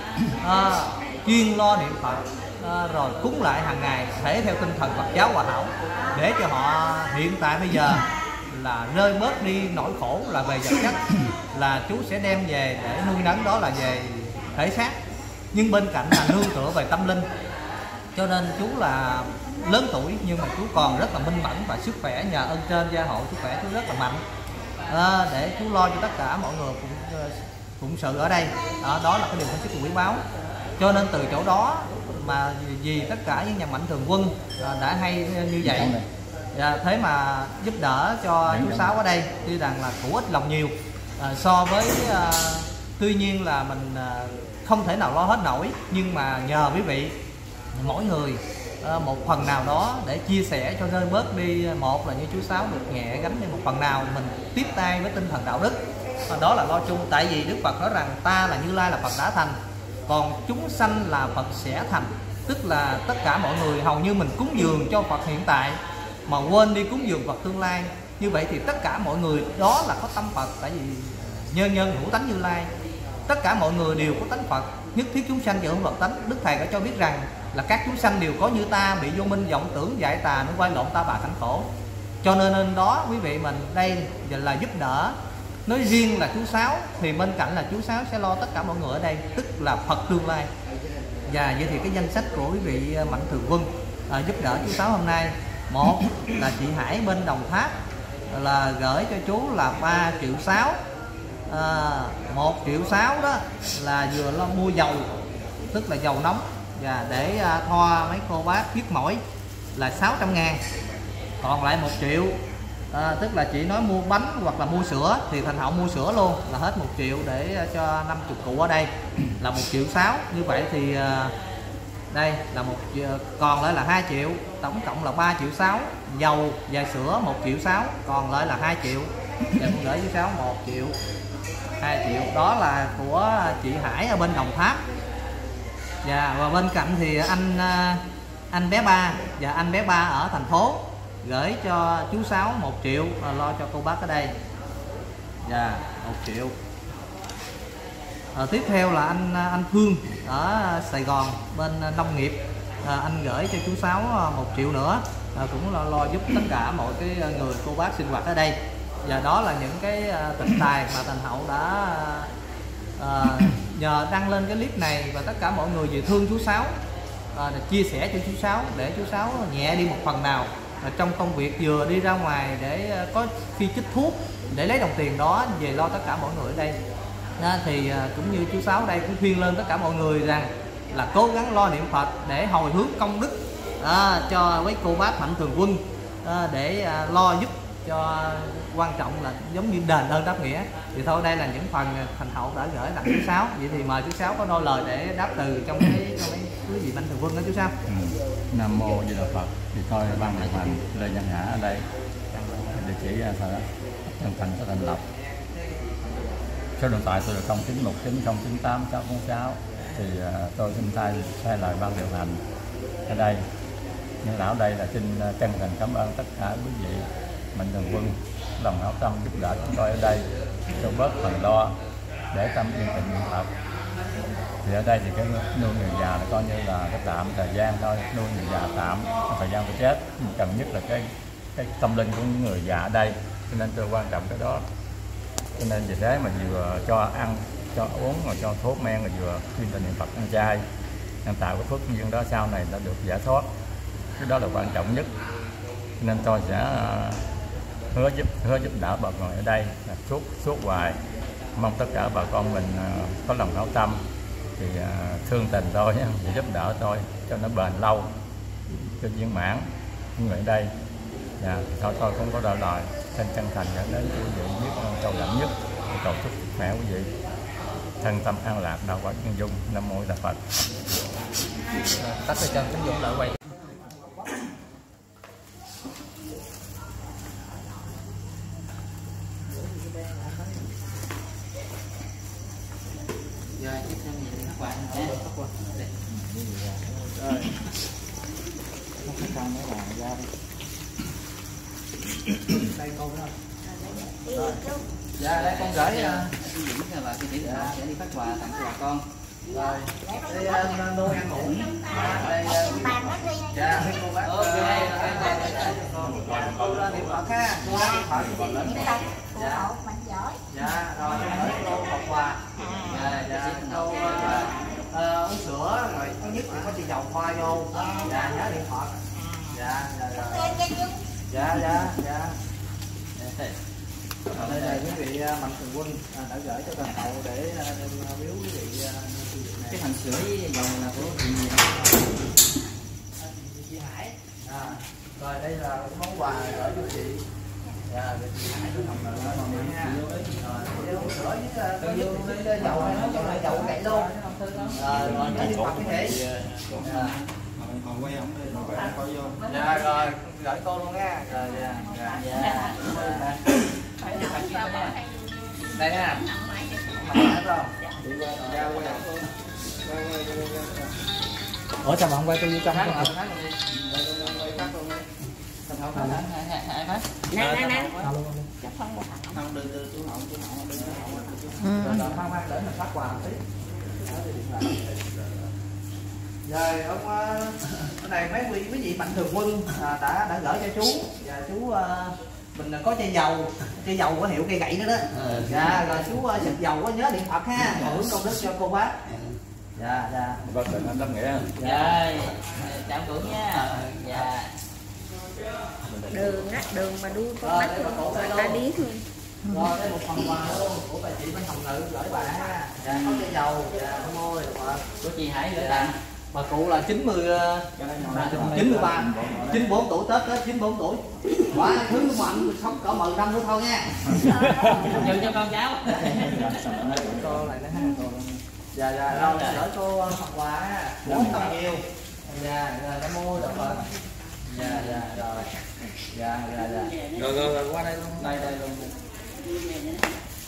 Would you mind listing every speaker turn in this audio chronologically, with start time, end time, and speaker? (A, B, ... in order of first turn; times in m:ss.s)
0:00.4-0:11.0 A
0:11.5-0:15.0 A
0:15.5-0:17.3 A
0:18.2-0:24.2 A
0:24.9-0:30.2 A
0:30.8-0:35.9 A
0:35.6-0:36.0 B
0:36.5-0:47.1 A
0:38.5-0:38.9 B
0:47.7-0:59.6 A
1:00.1-1:12.7 A
1:13.3-1:21.7 A
1:22.2-1:25.2 A
1:25.7-1:30.5 A
1:31.3-1:37.7 A
1:38.3-1:40.8 A
1:41.5-1:45.1 A
1:45.7-1:49.2 A
1:49.8-1:50.6 A
1:51.4-1:52.4 A
1:52.9-2:01.3 A
2:02.1-2:10.9 A
2:11.8-2:14.8 A
2:16.0-2:24.3 A
2:25.4-2:26.6 A
2:28.3-2:42.3 A
2:43.0-2:46.7 A
2:47.3-2:56.8 A
2:57.4-3:17.7 A
3:17.8-3:21.9 B
3:22.7-3:23.7 B
3:24.2-3:25.0 B
3:26.8-3:32.4 B
3:33.1-3:33.5 B
3:34.2-3:40.2 B
3:40.8-3:41.8 B
3:42.3-3:43.5 B
3:44.6-3:54.6 B
3:55.6-4:00.6 B
4:01.2-4:03.5 B
4:04.2-4:05.1 B
4:06.0-4:07.2 B
4:07.9-4:11.0 B
4:11.5-4:14.0 B
4:14.6-4:18.1 B
4:18.7-4:20.7 B
4:21.4-4:27.1 B
4:28.0-4:30.4 B
4:31.9-4:33.4 A
4:39.8-4:40.4 A
4:43.6-4:46.8 C
4:44.9-4:45.5 A
4:47.0-4:47.5 A
4:49.2-4:50.1 C
4:52.3-4:53.3 A
4:54.3-4:54.6 A
4:55.2-4:56.3 A
4:55.2-4:59.1 C
4:57.4-4:57.8 A
4:59.5-5:09.7 A
5:02.6-5:03.0 D
5:04.2-5:05.8 C
5:08.8-5:10.3 D
5:10.5-5:19.0 A
5:12.8-5:14.5 C
5:19.5-5:20.6 A
5:21.3-5:22.4 A
5:23.2-5:23.6 C
5:24.3-5:29.8 A
5:24.4-5:24.8 C
5:29.7-5:31.7 C
5:33.2-5:37.2 A
5:37.9-5:44.1 A
5:41.9-5:45.2 C
5:44.7-5:46.2 A
5:45.0-5:46.0 B
5:46.1-5:47.1 C
5:46.8-5:47.2 A
5:47.6-5:49.4 E
5:49.5-5:52.2 A
5:51.4-5:52.9 F
5:52.1-5:53.4 C
5:52.8-5:53.4 A
5:54.0-5:58.0 F
5:54.0-5:55.0 C
5:55.7-5:56.2 A
5:56.9-5:57.7 A
5:58.2-5:58.9 E
5:58.3-5:59.3 C
5:58.5-5:59.0 A
5:59.9-6:00.6 E
6:01.8-6:03.1 A
6:02.7-6:05.0 C
6:05.7-6:08.1 C
6:05.9-6:06.2 A
6:07.3-6:08.0 F
6:07.4-6:08.5 A
6:08.6-6:09.4 F
6:09.3-6:12.2 C
6:10.8-6:13.4 A
6:11.6-6:12.0 F
6:14.0-6:14.9 A
6:16.4-6:29.0 A
6:29.8-6:30.4 A
6:30.4-6:31.5 B
6:31.6-6:32.0 A
6:31.6-6:34.5 C
6:36.1-6:39.0 F
6:37.4-6:38.6 A
6:39.5-6:44.8 A
6:42.8-6:43.3 C
6:45.0-6:46.0 C
6:45.5-6:55.0 A
6:47.8-6:49.5 E
6:54.2-6:55.1 F
6:54.6-6:56.8 C
6:56.1-6:56.4 A
6:57.2-6:58.1 A
6:57.8-6:58.0 F
6:58.7-7:03.9 A
6:59.1-6:59.6 C
7:04.5-7:05.5 A
7:04.5-7:05.0 C
7:06.1-7:06.9 A
7:06.9-7:07.4 C
7:07.7-7:08.7 A
7:08.2-7:08.6 C
7:09.6-7:10.0 C